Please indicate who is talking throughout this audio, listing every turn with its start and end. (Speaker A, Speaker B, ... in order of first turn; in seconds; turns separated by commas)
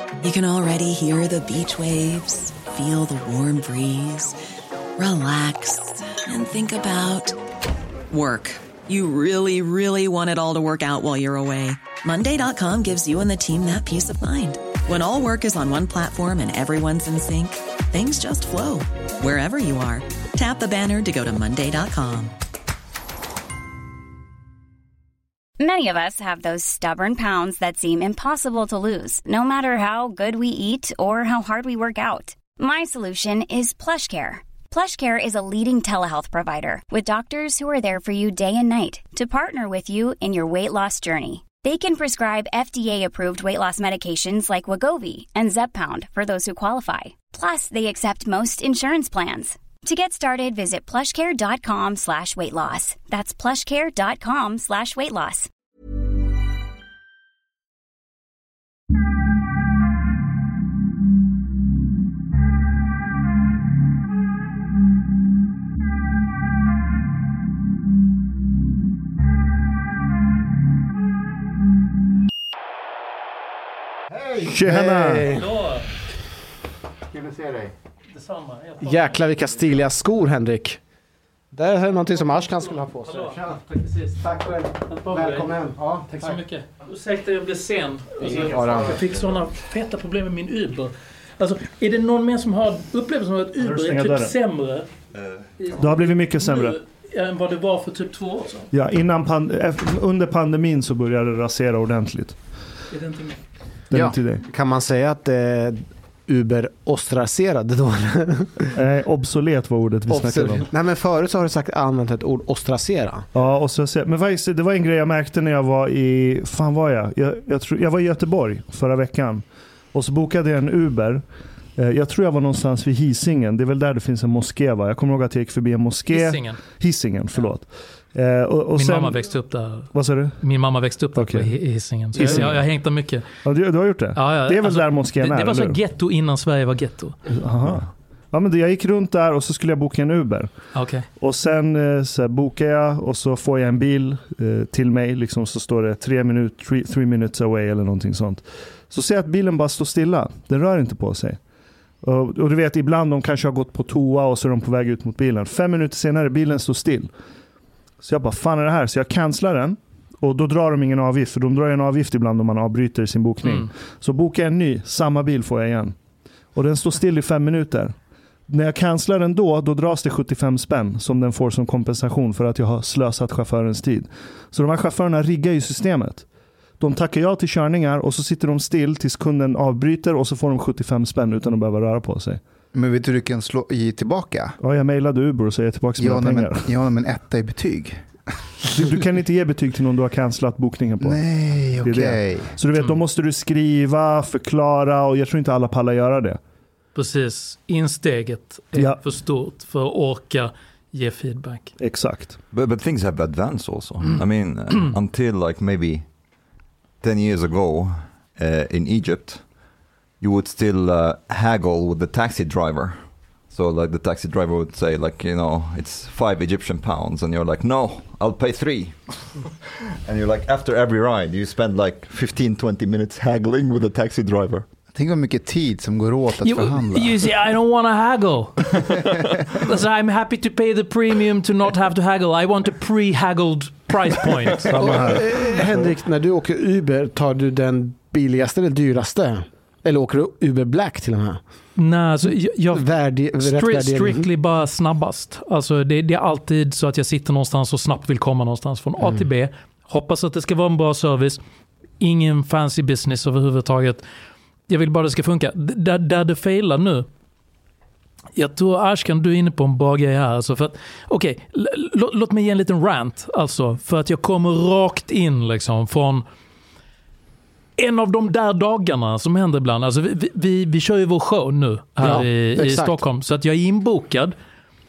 Speaker A: 0.2-4.4, Speaker A: 5.0-7.4, Speaker A: 8.1-22.4, Speaker B: 25.6-55.5, Speaker C: 74.4-75.3, Speaker D: 74.6-75.5, Speaker E: 75.4-75.8, Speaker F: 77.1-77.7, Speaker E: 78.1-79.2, Speaker D: 78.8-80.8, Speaker D: 81.5-83.5, Speaker E: 83.0-94.9, Speaker D: 84.2-86.2, Speaker D: 88.2-89.0, Speaker C: 93.6-94.3, Speaker E: 95.6-98.7, Speaker C: 95.7-96.8, Speaker C: 98.7-102.4, Speaker E: 102.9-103.4, Speaker C: 103.9-104.5, Speaker D: 104.5-108.7, Speaker C: 108.7-110.7, Speaker D: 110.3-113.3, Speaker C: 113.3-121.2, Speaker C: 121.8-129.3, Speaker E: 126.1-126.6, Speaker E: 128.8-133.2, Speaker C: 129.9-130.4, Speaker C: 131.2-131.6, Speaker C: 132.1-132.7, Speaker C: 133.4-135.8, Speaker E: 134.2-137.2, Speaker C: 137.3-140.5, Speaker E: 140.7-141.1, Speaker C: 141.2-151.4, Speaker C: 152.0-157.1, Speaker C: 158.0-166.0, Speaker E: 163.4-163.7, Speaker C: 166.5-168.0, Speaker C: 168.5-176.2, Speaker C: 176.8-182.4, Speaker F: 182.7-184.6, Speaker C: 184.6-186.7, Speaker F: 186.0-188.1, Speaker C: 188.7-191.2, Speaker F: 191.0-192.5, Speaker C: 191.8-196.4, Speaker E: 196.9-201.7, Speaker C: 198.7-199.0, Speaker C: 201.8-202.4, Speaker G: 202.5-206.1, Speaker G: 207.0-209.4, Speaker G: 210.2-219.5, Speaker G: 220.1-224.7, Speaker F: 224.9-227.2, Speaker E: 226.4-234.9, Speaker C: 234.7-235.3, Speaker D: 234.8-241.4, Speaker E: 241.8-251.4, Speaker D: 242.7-244.3, Speaker E: 252.0-254.1, Speaker E: 254.7-257.1, Speaker E: 258.4-266.2, Speaker E: 267.8-274.4, Speaker D: 272.0-273.0